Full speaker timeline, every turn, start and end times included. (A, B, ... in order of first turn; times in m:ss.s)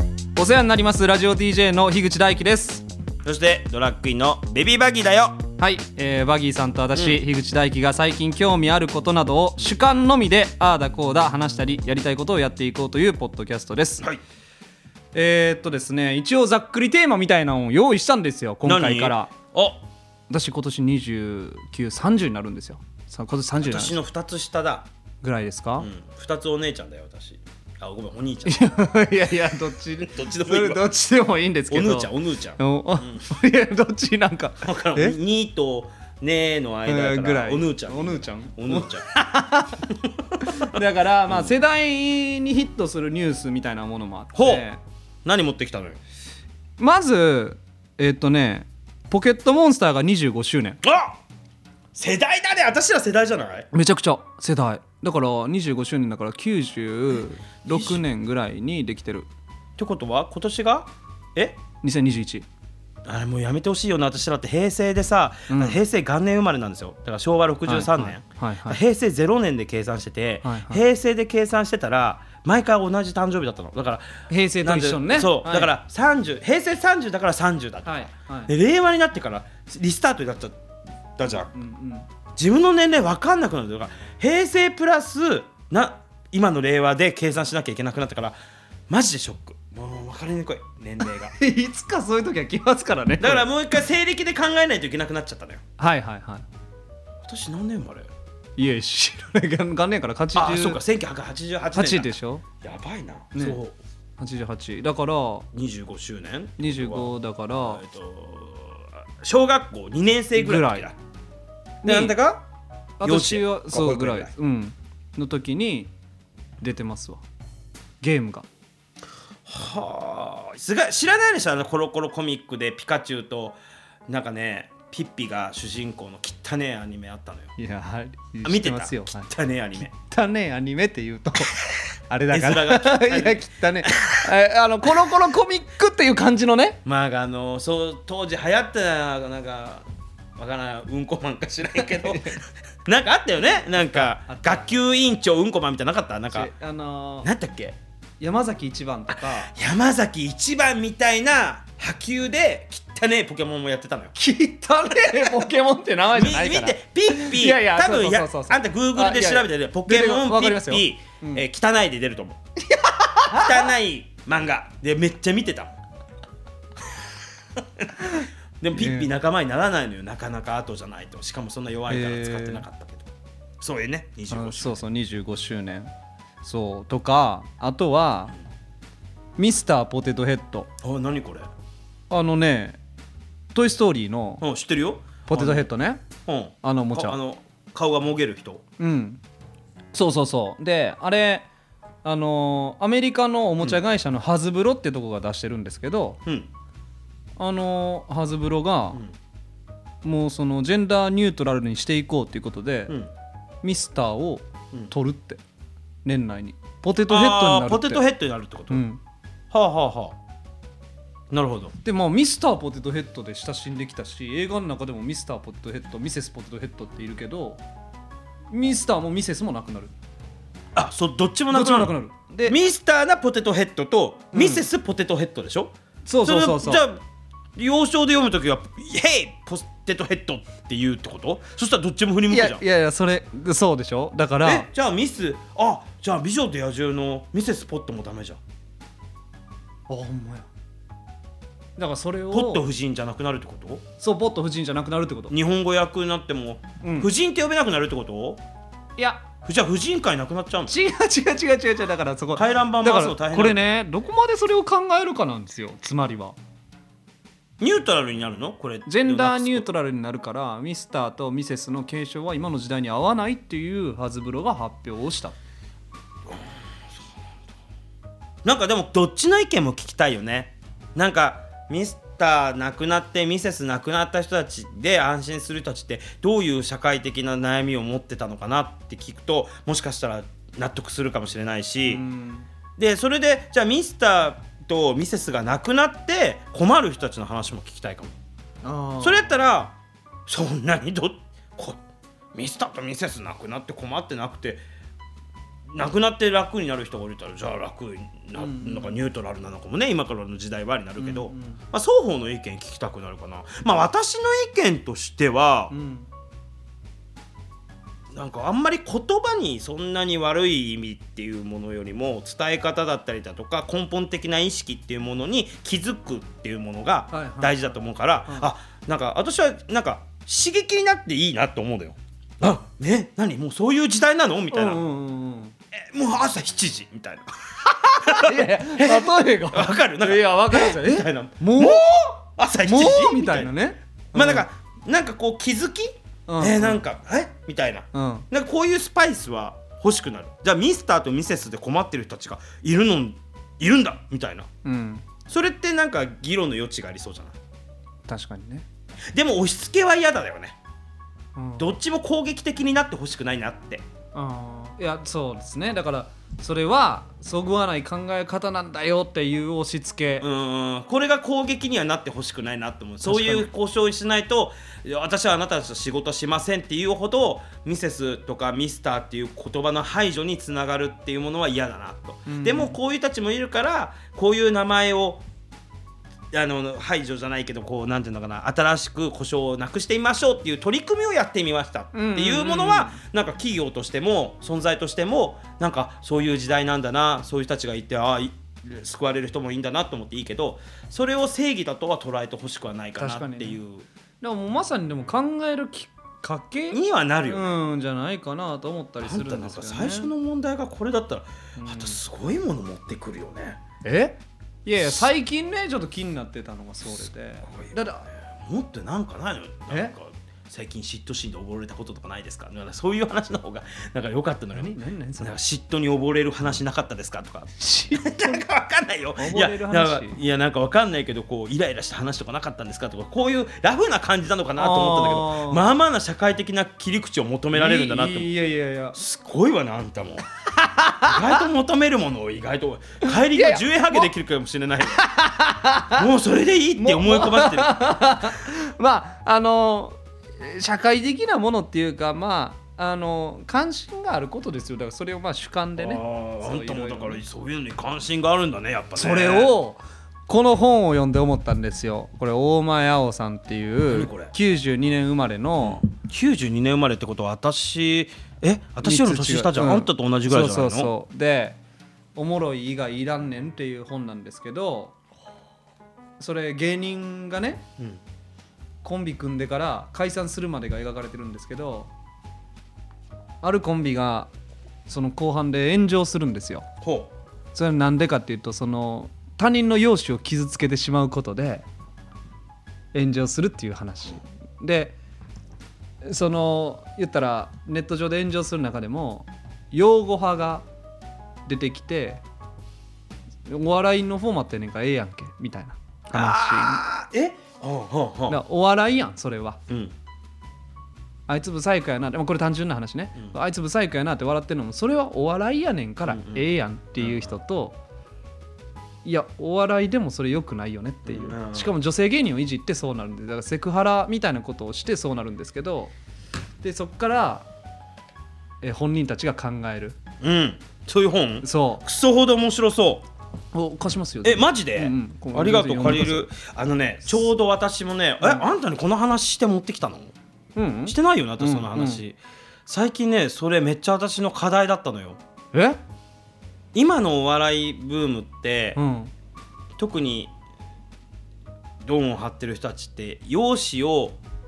0:00.3-0:02.8 A
0:03.2-0:05.4 B
0:05.6-0:14.0 A
0:06.9-0:07.2 B
0:15.1-0:19.3 A
0:18.6-0:19.8 B
0:20.3-0:24.0 A
0:23.6-0:24.9 B
0:25.2-0:25.9 A
0:25.8-0:28.7 B
0:28.4-0:35.2 A
0:30.0-0:30.8 B
0:31.7-0:33.2 B
0:34.6-0:39.1 B
0:36.9-0:39.9 A
0:40.4-0:44.8 A
0:41.3-0:41.6 B
0:44.3-0:44.6 B
0:45.2-0:46.0 B
0:46.8-0:50.8 A
0:50.8-0:51.2 B
0:51.9-0:53.7 B
0:53.7-0:59.3 A
0:57.6-0:58.0 B
0:59.8-1:01.6 B
1:01.8-1:02.4 A
1:03.0-1:20.6 B
1:05.5-1:05.8 A
1:07.6-1:08.8 A
1:10.4-1:10.8 A
1:14.3-1:15.7 A
1:17.8-1:18.5 A
1:21.2-1:21.5 B
1:21.3-1:22.1 A
1:22.4-1:28.4 B
1:28.9-1:31.3 B
1:31.0-1:33.4 A
1:33.2-1:35.6 B
1:35.8-1:36.4 A
1:37.2-1:38.1 B
1:38.6-1:40.8 A
1:40.3-1:43.8 B
1:41.7-1:42.4 A
1:43.3-1:43.6 A
1:44.2-1:45.5 A
1:45.5-1:50.9 B
1:46.6-1:47.8 A
1:50.4-1:50.9 A
1:51.8-1:52.2 A
1:51.8-1:52.5 B
1:53.0-1:55.9 A
1:53.0-1:54.3 B
1:56.6-1:57.2 A
1:58.0-1:58.5 A
1:59.4-2:07.5 B
2:07.6-2:09.3 A
2:08.4-2:09.9 B
2:09.8-2:16.8 A
2:12.3-2:14.2 B
2:16.8-2:19.8 B
2:20.4-2:26.5 B
2:21.8-2:22.3 A
2:23.7-2:24.6 A
2:26.3-2:27.3 A
2:27.2-2:27.8 B
2:28.2-2:29.5 A
2:29.1-2:34.1 B
2:34.1-2:41.4 A
2:36.1-2:42.4 B
2:42.6-2:43.7 A
2:43.3-2:45.8 B
2:48.6-2:53.1 B
2:48.7-2:49.1 A
2:51.9-2:52.6 A
2:53.6-2:54.8 B
2:54.3-2:55.9 A
2:56.4-2:58.3 A
2:59.4-3:00.7 A
3:00.8-3:01.5 B
3:02.1-3:02.8 A
3:03.5-3:04.4 A
3:04.4-3:05.7 B
3:05.3-3:06.0 A
3:06.2-3:08.6 B
3:06.6-3:07.2 A
3:08.8-3:09.2 A
3:09.9-3:11.5 A
3:12.0-3:16.2 A
3:17.4-3:19.0 A
3:20.0-3:23.0 A
3:23.6-3:25.4 A
3:26.0-3:28.0 A
3:27.1-3:28.8 B
3:28.7-3:29.0 A
3:29.5-3:30.2 B
3:31.3-3:31.7 B
3:31.8-3:37.6 A
3:38.5-3:39.9 A
3:40.7-3:47.0 B
3:41.5-3:42.6 A
3:44.3-3:44.7 A
3:46.0-3:46.8 A
3:47.6-3:52.6 B
3:52.3-3:54.7 A
3:54.4-3:58.4 B
3:59.9-4:00.5 A
4:01.8-4:02.6 A
4:02.3-4:03.8 B
4:04.0-4:05.3 A
4:05.3-4:08.4 B
4:06.8-4:07.1 A
4:09.0-4:09.2 A
4:09.4-4:10.7 B
4:10.7-4:16.4 A
4:12.3-4:13.6 B
4:17.6-4:19.7 B
4:18.8-4:25.4 A
4:28.4-4:42.0 B
4:41.9-4:42.5 A
4:42.8-4:48.2 B
4:48.6-4:49.3 A
4:49.0-4:51.8 B
4:52.3-4:54.6 B
4:55.7-5:05.7 B
4:58.4-4:59.0 A
5:01.0-5:01.6 A
5:05.7-5:06.1 A
5:08.1-5:24.8 B
5:17.1-5:17.8 A
5:24.5-5:25.5 A
5:25.7-5:27.3 B
5:27.7-5:31.8 A
5:28.0-5:33.5 B
5:32.6-5:34.4 A
5:34.1-5:44.5 B
5:36.3-5:36.8 A
5:37.9-5:38.2 A
5:44.6-5:45.0 A
5:45.3-5:47.4 B
5:48.1-5:48.6 A
5:49.1-5:50.6 B
5:51.4-5:51.7 A
5:51.6-5:53.8 B
5:54.1-6:00.2 A
6:00.2-6:15.2 B
6:03.0-6:03.5 A
6:12.3-6:12.7 A
6:16.3-6:33.8 B
6:21.9-6:23.0 A
6:33.0-6:33.6 A
6:34.2-6:40.1 A
6:36.7-6:37.6 B
6:39.0-6:43.6 B
6:41.6-6:42.0 A
6:43.8-6:48.1 A
6:47.5-7:08.3 B
6:54.5-6:55.3 A
6:57.6-6:58.4 A
6:59.2-7:00.2 A
7:04.6-7:05.6 A
7:07.5-7:09.0 A
7:08.9-7:10.2 B
7:10.6-7:11.4 A
7:11.0-7:15.0 B
7:13.3-7:14.1 A
7:14.9-7:16.0 A
7:15.9-7:17.8 B
7:16.8-7:27.2 A
7:25.8-7:29.6 B
7:29.0-7:35.8 A
7:33.9-7:34.3 B
7:35.6-7:40.9 B
7:38.8-7:41.6 A
7:42.2-7:44.9 A
7:46.2-7:47.6 A
7:48.8-7:51.9 A
7:53.4-7:54.3 A
7:54.9-7:56.6 A
7:56.8-7:57.1 B
7:57.5-8:01.7 A
8:02.9-8:04.9 A
8:06.0-8:10.6 A
8:11.4-8:12.2 A
8:13.5-8:16.8 A
8:16.1-8:18.4 B
8:18.3-8:19.6 A
8:19.7-8:19.9 B
8:21.3-8:27.8 A
8:26.0-8:27.4 B
8:29.0-8:35.9 A
8:31.0-8:31.7 B
8:36.6-8:37.4 A
8:38.6-8:40.0 A
8:40.2-8:43.0 B
8:41.4-8:41.8 A
8:43.5-8:46.3 A
8:44.2-8:50.1 B
8:48.2-8:48.5 A
8:50.6-8:52.0 A
8:50.9-8:55.2 B
8:55.5-8:55.8 A
8:56.7-8:58.8 B
8:58.8-8:59.1 A
8:59.8-9:00.3 B
9:01.8-9:04.2 B